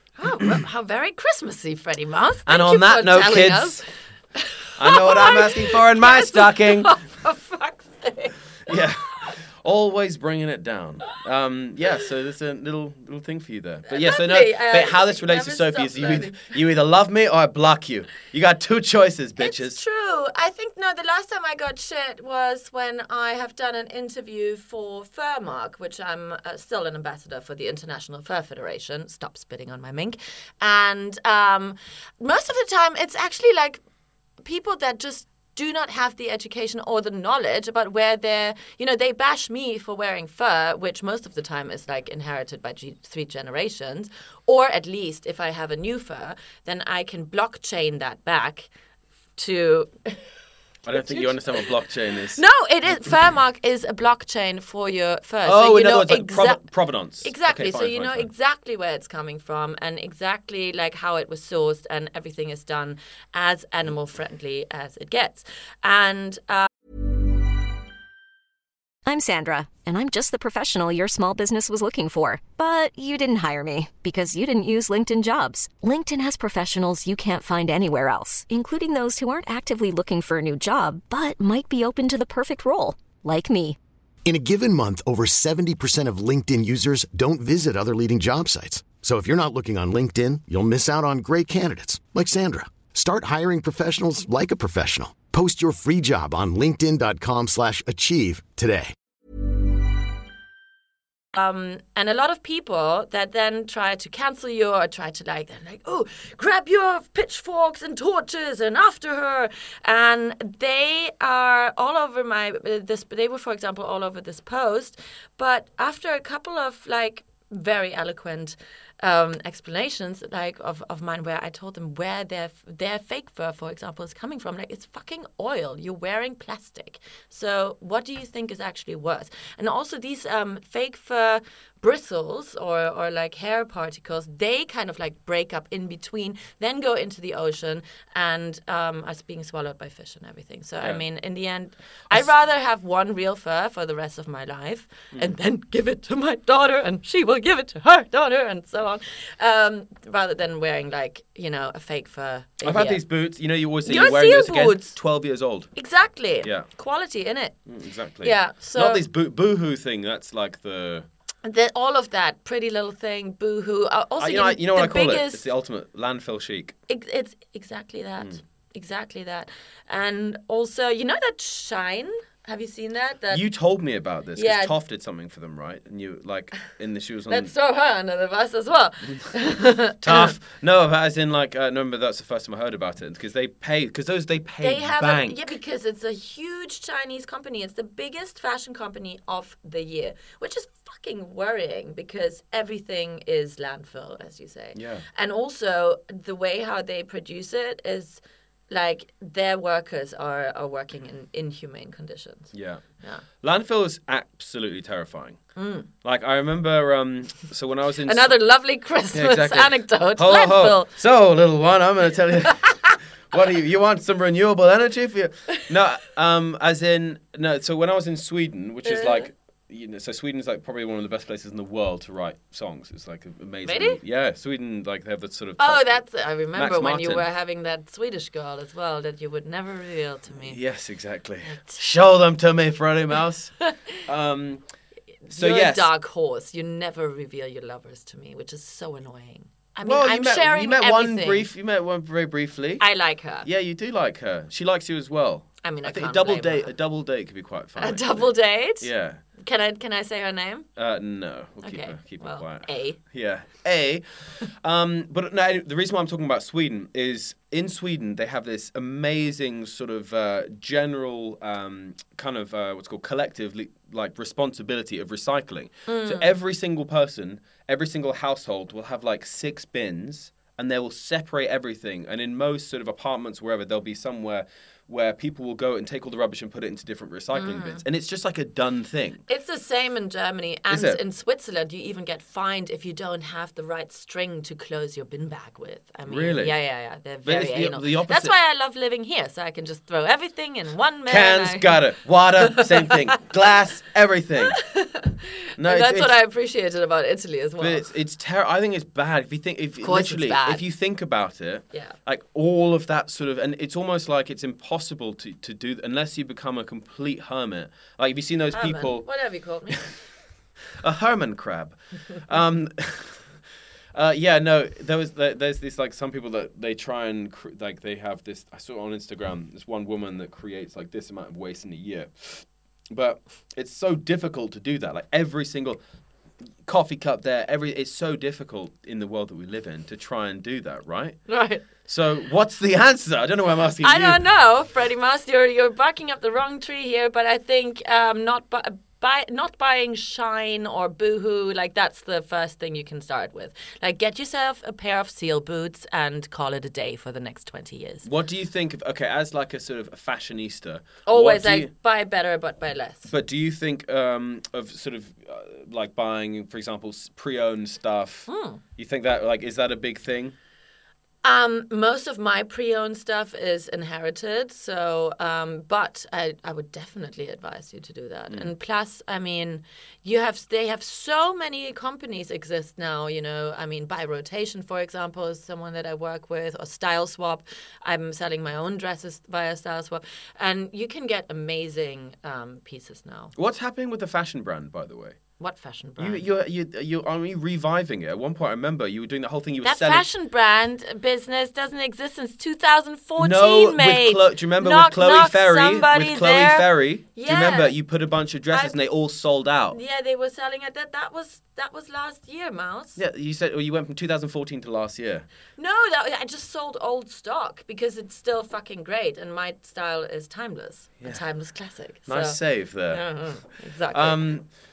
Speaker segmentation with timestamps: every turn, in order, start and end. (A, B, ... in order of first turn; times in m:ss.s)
0:00.2-0:03.8 A
0:02.5-0:03.8 B
0:04.4-0:08.8 A
0:04.8-0:06.9 B
0:08.7-0:19.8 B
0:13.9-0:16.5 A
0:19.4-0:33.8 A
0:34.4-0:48.7 A
0:49.4-0:50.2 A
0:50.8-0:52.4 B
0:50.9-0:51.7 A
0:52.3-0:56.6 A
0:55.4-0:58.3 B
0:57.2-1:06.7 A
1:09.1-1:23.8 C
1:24.2-1:38.9 D
1:41.3-2:33.0 A
2:32.6-2:35.7 B
2:33.8-2:35.0 A
2:35.8-2:37.6 A
2:37.7-2:41.1 B
2:38.2-2:39.0 A
2:41.4-2:45.4 A
2:44.2-2:46.8 B
2:46.9-2:53.4 A
2:53.3-2:57.5 B
2:54.4-2:54.7 A
2:57.3-3:00.4 A
3:00.0-3:05.5 B
3:04.6-3:23.2 A
3:14.8-3:15.0 B
3:22.5-3:22.8 B
3:23.4-3:25.4 B
3:25.6-3:25.9 A
3:26.0-3:28.4 B
3:28.0-3:30.9 A
3:29.1-3:46.0 B
3:32.6-3:33.0 A
3:38.9-3:39.3 A
3:43.6-3:44.0 A
3:45.6-3:50.6 A
3:46.5-3:47.3 B
3:50.3-3:53.5 B
3:51.4-3:51.8 A
3:53.6-3:54.0 A
3:54.0-3:54.6 B
3:55.3-4:01.5 A
3:55.3-3:55.9 B
3:59.8-4:02.8 B
4:02.8-4:03.5 A
4:03.4-4:09.2 B
4:05.6-4:06.7 A
4:07.8-4:10.7 A
4:10.8-4:39.2 B
4:11.6-4:13.0 A
4:25.9-4:26.3 A
4:37.3-4:37.8 A
4:39.3-4:51.8 A
4:40.7-4:41.0 B
4:46.1-4:46.5 B
4:47.2-4:48.3 B
4:51.1-4:54.6 B
4:52.4-4:53.0 A
4:54.4-4:57.9 A
4:55.6-4:56.2 B
4:57.6-5:09.1 B
4:59.8-5:00.6 A
5:08.5-5:09.9 A
5:10.8-5:13.3 B
5:13.9-5:25.8 B
5:26.7-5:31.2 B
5:31.3-5:31.6 A
5:31.8-5:34.2 B
5:33.8-5:48.1 A
5:48.0-5:51.7 B
5:51.1-5:53.1 A
5:53.1-6:00.4 B
5:58.3-5:58.6 A
6:01.2-6:23.3 A
6:23.4-6:25.2 B
6:25.4-6:26.2 A
6:26.0-6:30.1 B
6:29.6-6:37.7 A
6:33.2-6:39.8 B
6:38.5-6:38.8 A
6:39.7-6:43.0 A
6:43.0-6:45.3 B
6:45.6-6:54.2 A
6:52.1-6:53.1 B
6:53.9-6:54.5 B